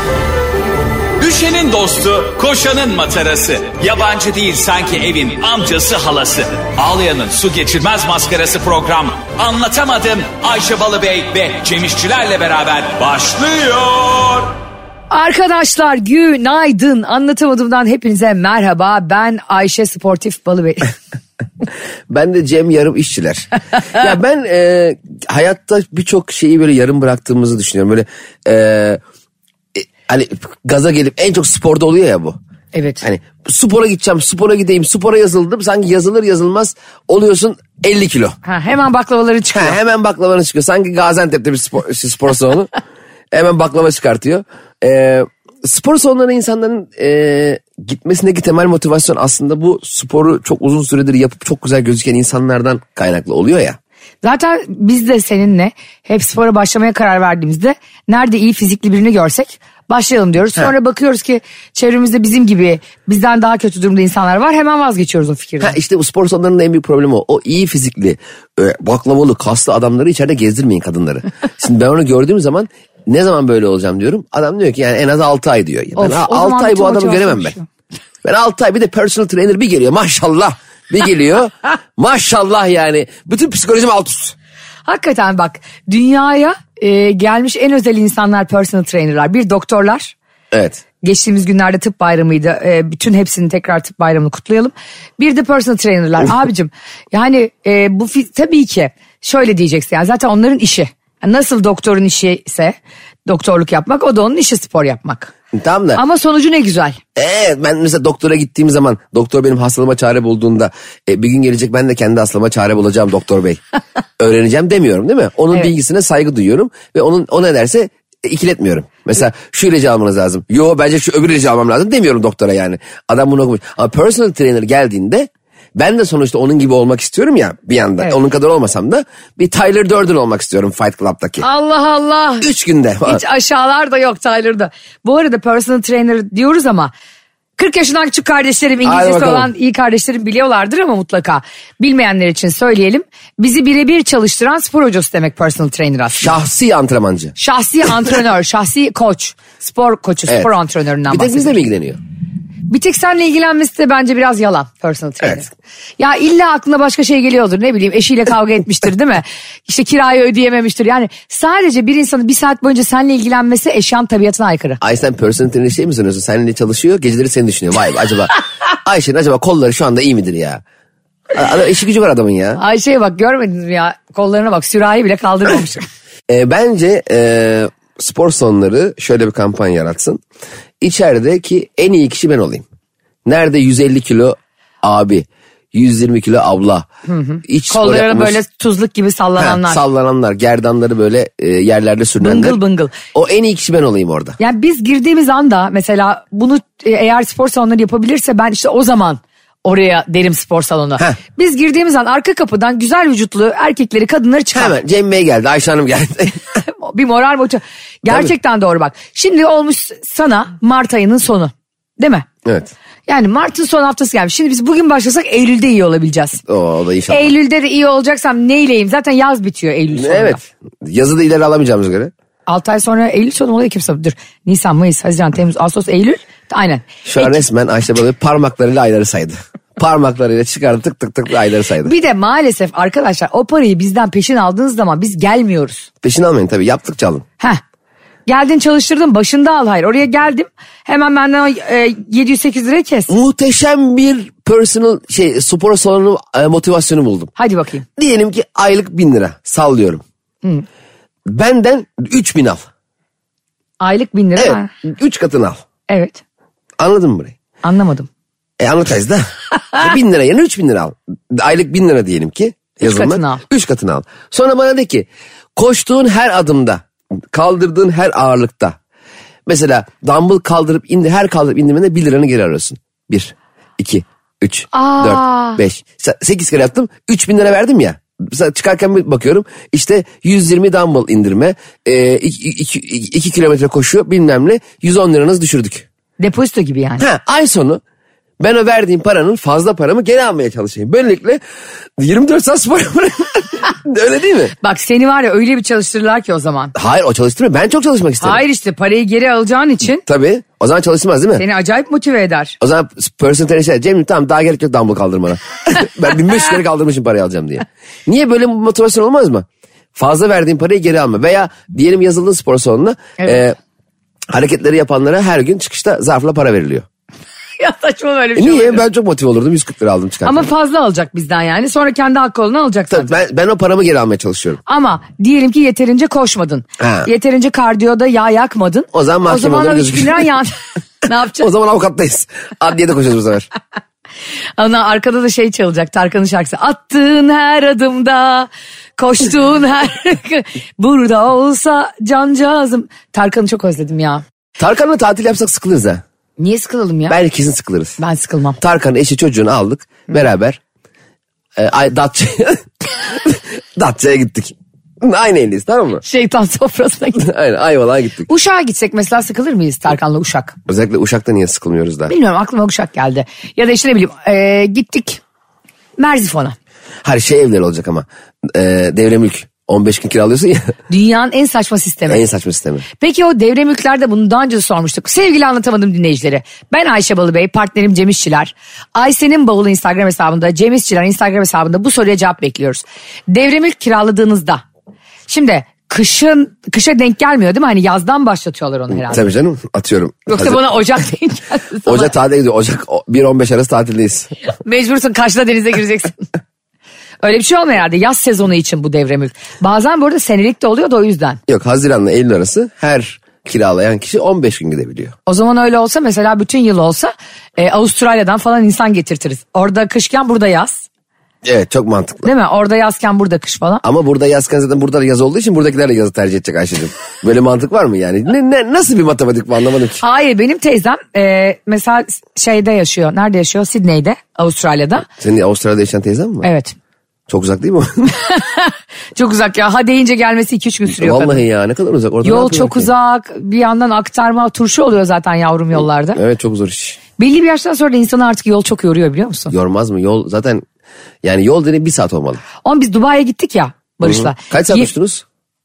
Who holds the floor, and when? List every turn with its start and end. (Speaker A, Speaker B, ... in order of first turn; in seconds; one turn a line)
Speaker A: 1.2-14.5
Speaker B: 15.1-20.9
Speaker C: 22.1-29.0
Speaker C: 29.8-32.4
Speaker B: 32.7-33.0
Speaker C: 33.0-38.4
Speaker B: 38.4-39.8
Speaker C: 39.5-42.7
Speaker C: 43.3-53.8
Speaker B: 54.2-65.8
Speaker C: 65.6-77.5
Speaker B: 76.0-77.7
Speaker C: 78.2-84.3
Speaker B: 84.9-90.2
Speaker C: 90.5-90.8
Speaker B: 91.0-102.8
Speaker B: 103.3-105.3
Speaker C: 105.5-106.0
Speaker B: 106.0-107.0
Speaker C: 107.2-113.6
Speaker C: 114.2-131.4
Speaker B: 131.4-132.5
Speaker C: 132.4-133.2
Speaker B: 133.1-136.9
Speaker B: 137.6-146.3
Speaker C: 138.8-139.5
Speaker C: 146.2-147.3
Speaker B: 147.4-151.6
Speaker C: 151.1-152.0
Speaker B: 152.7-164.8
Speaker C: 155.2-155.5
Speaker C: 164.8-170.6
Speaker C: 171.3-172.6
Speaker B: 172.6-175.9
Speaker C: 176.3-180.2
Speaker C: 180.8-182.7
Speaker C: 183.2-186.9
Speaker B: 187.1-189.8
Speaker C: 187.4-188.4
Speaker C: 189.4-192.6
Speaker B: 192.2-192.9
Speaker C: 193.1-194.4
Speaker B: 194.4-204.8
Speaker C: 204.6-206.4
Speaker B: 206.7-212.3
Speaker C: 212.4-212.7
Speaker B: 213.1-216.4
Speaker C: 216.5-217.3
Speaker B: 217.1-220.4
Speaker C: 219.9-222.1
Speaker B: 222.5-227.4
Speaker C: 227.1-231.9
Speaker B: 231.8-235.9
Speaker C: 236.0-237.2
Speaker B: 238.3-243.1
Speaker C: 243.1-247.3
Speaker B: 247.4-247.9
Speaker C: 248.0-250.0
Speaker C: 251.3-252.7
Speaker B: 253.8-254.7
Speaker C: 254.4-255.6
Speaker B: 255.9-256.2
Speaker C: 256.8-257.4
Speaker B: 257.6-258.1
Speaker C: 258.6-268.8
Speaker B: 262.8-263.4
Speaker C: 269.5-285.9
Speaker B: 274.7-275.6
Speaker B: 286.2-287.1
Speaker C: 287.0-287.8
Speaker C: 288.4-291.4
Speaker C: 292.0-294.5
Speaker B: 294.6-296.7
Speaker C: 296.8-298.4
Speaker B: 298.2-300.1
Speaker C: 300.1-301.4
Speaker B: 301.4-302.6
Speaker C: 302.6-313.6
Speaker C: 314.3-316.9
Speaker B: 317.6-318.9
Speaker C: 318.4-320.5
Speaker B: 320.2-323.1
Speaker C: 322.9-324.6
Speaker B: 324.7-331.5
Speaker C: 326.8-327.1
Speaker C: 328.9-330.3
Speaker C: 331.4-333.5
Speaker B: 334.6-344.2
Speaker C: 344.6-346.0
Speaker B: 346.4-347.2
Speaker C: 347.1-348.0
Speaker B: 348.0-348.6
Speaker C: 348.6-350.6
Speaker C: 351.6-356.0
Speaker B: 356.1-357.2
Speaker C: 357.2-358.3
Speaker B: 358.3-360.6
Speaker C: 360.7-362.1
Speaker B: 362.1-365.2
Speaker B: 366.0-366.6
Speaker C: 367.0-370.7
Speaker B: 370.9-372.2
Speaker C: 372.1-372.9
Speaker B: 373.0-384.6
Speaker B: 385.3-389.3
Speaker C: 388.9-390.7
Speaker B: 390.3-392.1
Speaker C: 391.9-394.3
Speaker B: 394.6-396.3
Speaker B: 397.2-401.4
Speaker C: 401.5-405.1
Speaker B: 405.3-410.9
Speaker C: 411.4-412.3
Speaker B: 412.2-413.8
Speaker C: 413.8-420.0
Speaker B: 420.0-425.1
Speaker C: 425.1-426.5
Speaker B: 426.4-426.8
Speaker C: 427.3-428.2
Speaker B: 428.2-431.4
Speaker C: 430.9-432.9
Speaker B: 432.2-436.2
Speaker C: 436.1-437.0
Speaker B: 437.2-439.5
Speaker C: 439.5-440.6
Speaker C: 441.2-442.4
Speaker B: 442.6-444.9
Speaker C: 444.0-445.2